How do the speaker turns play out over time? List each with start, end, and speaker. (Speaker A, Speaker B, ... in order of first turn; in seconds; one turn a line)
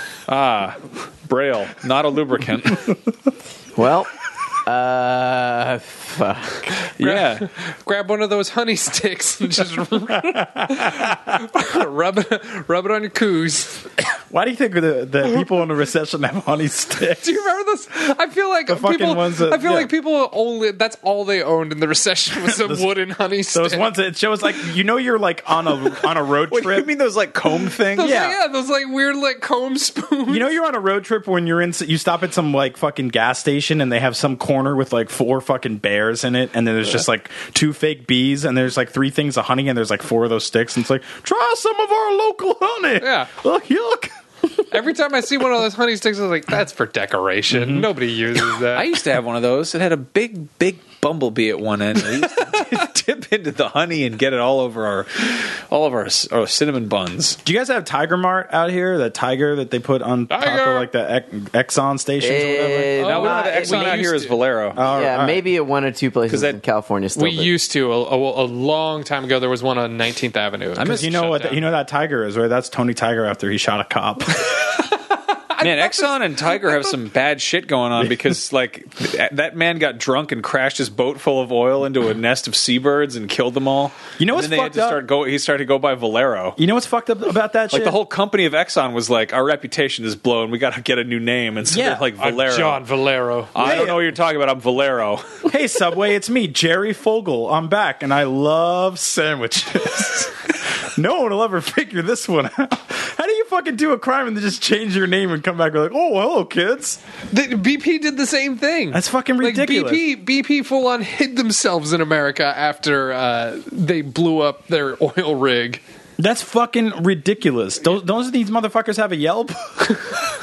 Speaker A: 0.3-2.9
Speaker B: 3.8-4.1
Speaker B: 4.7-6.8
Speaker A: 7.0-7.5
Speaker C: 7.0-13.9
Speaker D: 10.6-11.2
Speaker D: 14.3-17.3
Speaker C: 17.2-23.9
Speaker D: 18.7-19.9
Speaker D: 22.5-22.9
Speaker D: 23.5-26.9
Speaker A: 26.5-28.3
Speaker C: 28.0-30.5
Speaker D: 28.0-28.4
Speaker D: 30.3-44.1
Speaker C: 43.0-43.3
Speaker C: 44.7-48.9
Speaker D: 47.5-47.9
Speaker A: 48.7-57.4
Speaker D: 57.4-63.0
Speaker C: 60.3-60.9
Speaker B: 62.2-64.0
Speaker C: 63.0-64.4
Speaker A: 63.0-64.8
Speaker D: 64.8-65.4
Speaker B: 64.8-67.5
Speaker A: 66.3-66.6
Speaker C: 67.2-71.3
Speaker A: 70.8-71.6
Speaker D: 70.8-74.8
Speaker C: 75.5-76.1
Speaker A: 75.6-86.6
Speaker D: 84.2-85.0
Speaker D: 86.6-88.0
Speaker A: 87.7-92.8
Speaker D: 91.7-92.1
Speaker C: 92.2-93.7
Speaker A: 93.5-95.2
Speaker D: 93.6-94.1
Speaker D: 95.5-107.0
Speaker C: 107.3-115.8
Speaker D: 108.9-110.1
Speaker D: 116.2-120.1